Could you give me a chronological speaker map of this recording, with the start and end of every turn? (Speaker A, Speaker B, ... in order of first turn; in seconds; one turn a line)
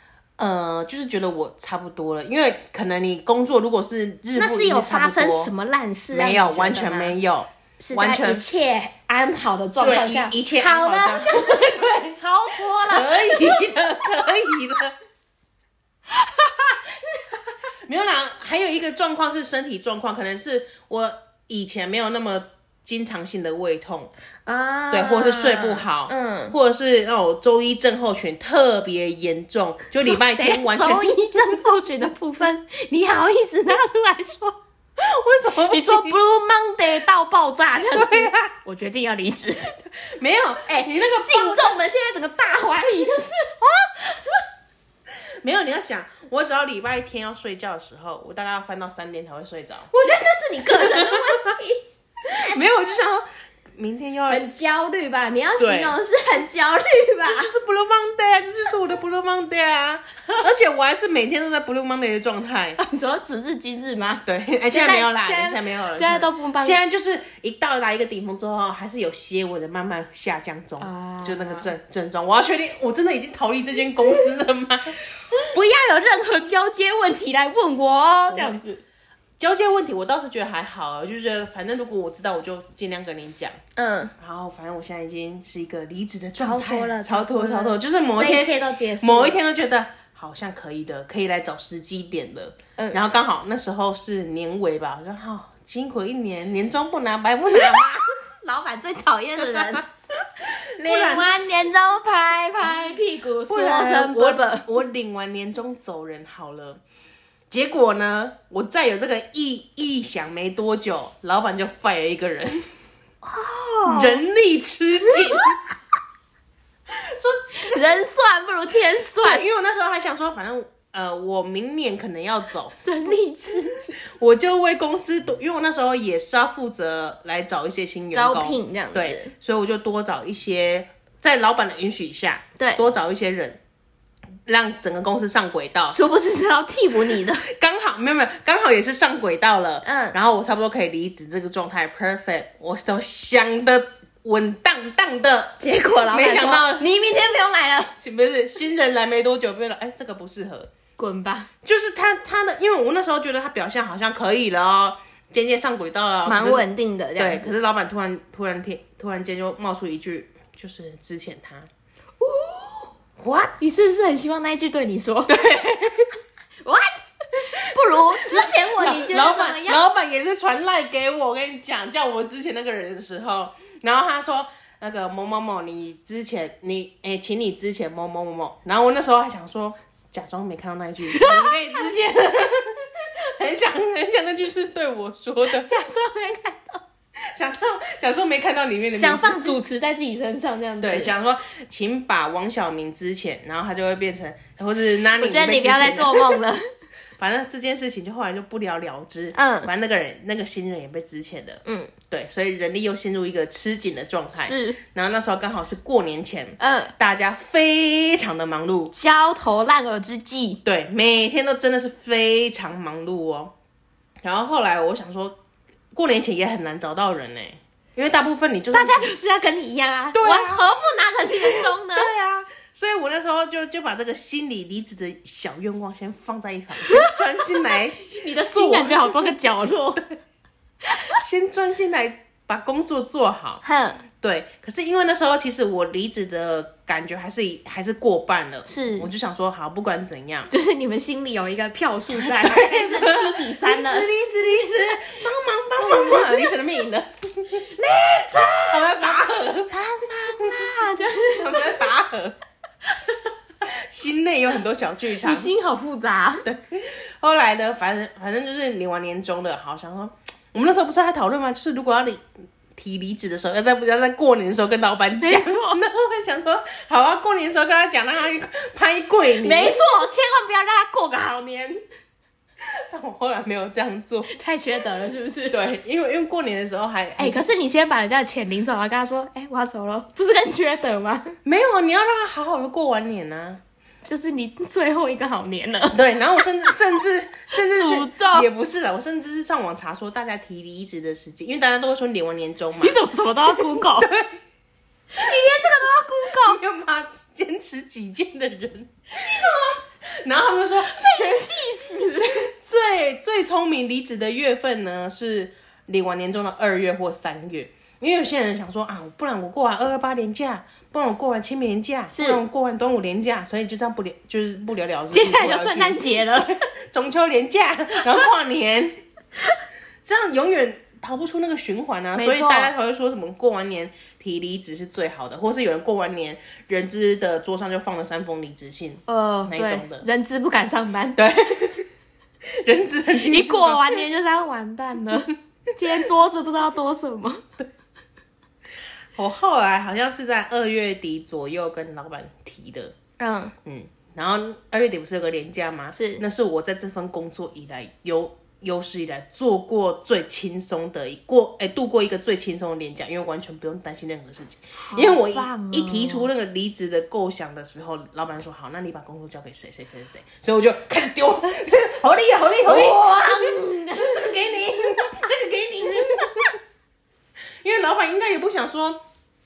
Speaker A: 0.4-5.5
Speaker B: 4.4-7.2
Speaker A: 6.1-8.4
Speaker B: 7.8-13.7
Speaker A: 9.8-12.2
Speaker A: 12.8-14.9
Speaker B: 16.1-17.5
Speaker A: 17.9-24.1
Speaker B: 24.5-26.6
Speaker A: 24.9-31.5
Speaker B: 30.0-34.6
Speaker A: 35.0-36.2
Speaker B: 35.7-39.7
Speaker A: 37.8-38.5
Speaker A: 39.9-41.8
Speaker B: 40.7-44.5
Speaker A: 45.4-49.9
Speaker B: 49.9-52.6
Speaker A: 50.8-51.5
Speaker A: 52.3-53.2
Speaker A: 53.8-54.4
Speaker B: 54.3-57.5
Speaker A: 55.6-56.0
Speaker A: 57.2-62.8
Speaker B: 62.8-66.8
Speaker A: 64.3-75.0
Speaker B: 70.8-71.7
Speaker B: 75.5-78.8
Speaker A: 78.3-78.6
Speaker A: 79.4-83.6
Speaker B: 83.8-84.1
Speaker A: 84.2-98.1
Speaker B: 86.4-89.4
Speaker B: 97.5-97.9
Speaker B: 98.4-99.8
Speaker A: 99.5-99.8
Speaker A: 100.4-101.3
Speaker B: 100.8-104.7
Speaker A: 103.5-106.8
Speaker A: 107.5-112.7
Speaker B: 113.2-114.2
Speaker A: 113.9-115.6
Speaker B: 115.1-115.6
Speaker A: 116.9-117.8
Speaker B: 117.6-119.5
Speaker A: 119.2-122.8
Speaker B: 122.8-124.0
Speaker A: 124.0-133.6
Speaker B: 128.1-129.3
Speaker A: 134.5-136.0
Speaker B: 135.9-137.4
Speaker A: 137.4-146.8
Speaker B: 139.8-140.2
Speaker B: 145.6-147.9
Speaker A: 148.0-150.7
Speaker B: 151.0-151.5
Speaker A: 151.6-156.7
Speaker B: 156.3-157.5
Speaker A: 157.2-161.7
Speaker B: 162.2-162.9
Speaker A: 163.2-163.6
Speaker B: 163.6-165.4
Speaker A: 165.3-166.1
Speaker B: 166.6-169.8
Speaker A: 167.5-185.7
Speaker B: 181.1-181.6
Speaker B: 185.5-186.8
Speaker A: 187.2-189.6
Speaker B: 188.9-191.1
Speaker A: 190.8-196.4
Speaker B: 195.2-196.6
Speaker A: 197.2-208.9
Speaker B: 199.3-199.7
Speaker B: 201.7-201.9
Speaker B: 204.4-204.8
Speaker B: 206.6-206.9
Speaker B: 208.9-210.6
Speaker A: 210.7-213.5
Speaker A: 214.2-215.4
Speaker A: 215.9-219.1
Speaker B: 218.7-222.1
Speaker A: 220.1-220.6
Speaker A: 221.4-229.2
Speaker B: 226.9-227.6
Speaker B: 228.1-230.0
Speaker A: 231.1-233.6
Speaker B: 233.6-234.0
Speaker A: 234.2-240.5
Speaker B: 238.7-239.1
Speaker B: 240.5-244.1
Speaker A: 242.1-249.8
Speaker B: 245.8-246.5
Speaker B: 247.7-251.8
Speaker A: 250.4-250.7
Speaker A: 251.3-252.4
Speaker B: 252.9-253.3
Speaker A: 253.6-255.5
Speaker B: 255.2-256.4
Speaker A: 256.4-269.8
Speaker B: 265.2-265.8
Speaker B: 269.4-271.8
Speaker A: 272.7-274.4
Speaker B: 274.3-275.6
Speaker A: 275.5-277.5
Speaker B: 277.2-281.4
Speaker A: 281.4-283.6
Speaker B: 284.1-286.8
Speaker A: 285.9-293.0
Speaker B: 287.5-288.5
Speaker B: 292.8-294.1
Speaker A: 293.5-294.4
Speaker B: 295.1-296.6
Speaker A: 296.4-298.9
Speaker B: 299.1-299.8
Speaker A: 300.2-319.0
Speaker B: 300.9-302.4
Speaker B: 312.1-312.4
Speaker B: 315.1-316.6
Speaker A: 320.0-330.1
Speaker B: 322.2-322.7
Speaker B: 329.1-331.2
Speaker A: 331.2-331.9
Speaker A: 332.6-334.0
Speaker B: 333.2-337.4
Speaker A: 339.2-342.9
Speaker B: 343.2-343.5
Speaker A: 343.6-366.6
Speaker B: 345.9-346.2
Speaker B: 354.8-356.3
Speaker B: 362.6-364.3
Speaker B: 365.9-366.3
Speaker A: 367.6-369.0